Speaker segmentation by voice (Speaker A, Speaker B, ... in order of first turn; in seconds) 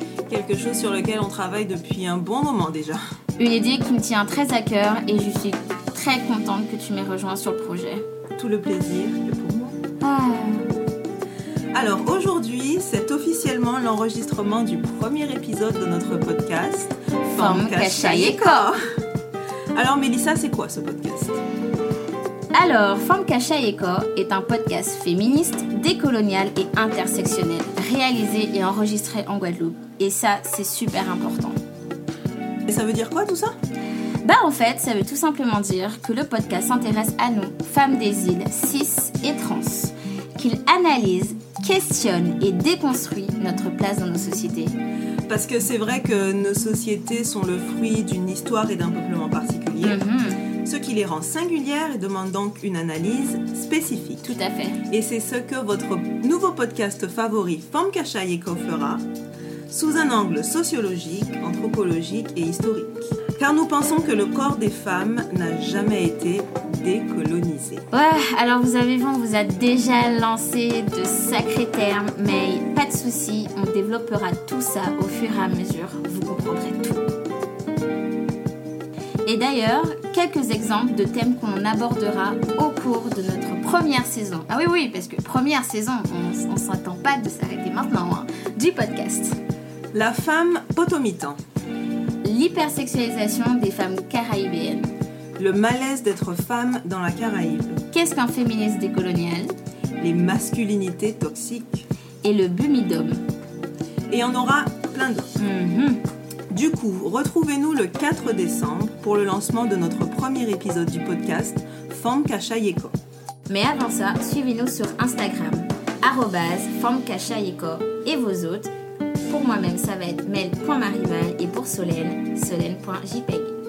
Speaker A: 0.3-3.0, 8.4-9.8, 11.7-18.8, 19.8-21.4, 32.7-33.5, 45.3-50.0, 50.6-54.3, 54.9-59.0, 59.7-67.8, 89.9-91.4, 95.4-97.8, 100.0-101.9, 104.1-105.3, 106.5-113.0
Speaker B: 3.4-8.0, 10.0-10.7, 17.3-18.7, 22.5-31.6, 34.2-44.8, 49.8-50.5, 54.3-54.8, 67.9-77.0, 79.3-89.4, 92.2-94.9, 97.9-99.5, 102.2-103.2, 105.4-106.0, 113.5-118.7, 119.3-123.5